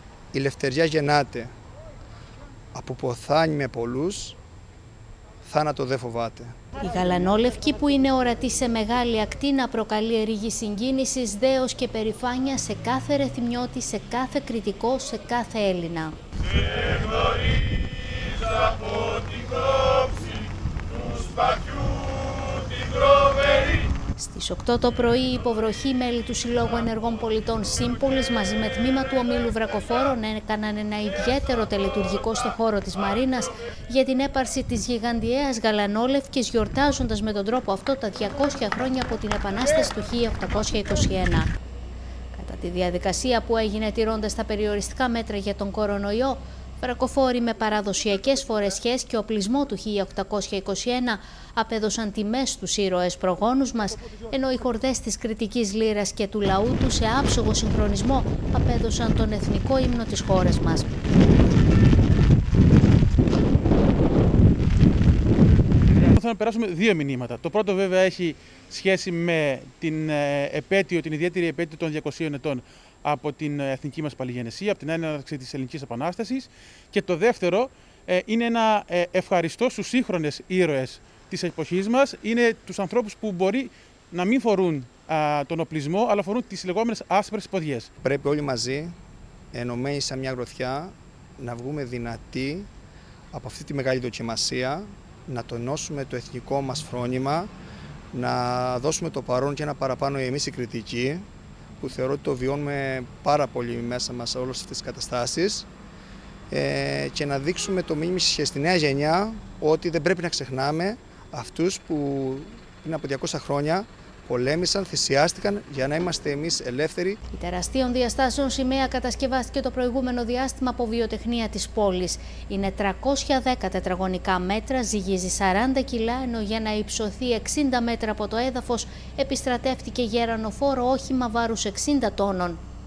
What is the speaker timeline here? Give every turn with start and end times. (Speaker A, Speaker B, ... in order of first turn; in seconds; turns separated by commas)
Speaker A: 0.3-1.5, Speaker A: 2.7-4.4, Speaker A: 5.4-6.5, Speaker B: 6.8-16.2, Speaker C: 19.5-20.3, Speaker C: 21.2-21.8, Speaker C: 22.5-22.9, Speaker B: 24.2-41.5, Speaker B: 42.3-60.9, Speaker C: 66.1-87.9, Speaker A: 88.0-88.9, Speaker A: 89.5-92.7, Speaker A: 93.3-97.5, Speaker A: 98.1-101.2, Speaker A: 101.8-105.7, Speaker A: 106.5-117.2, Speaker B: 117.3-132.6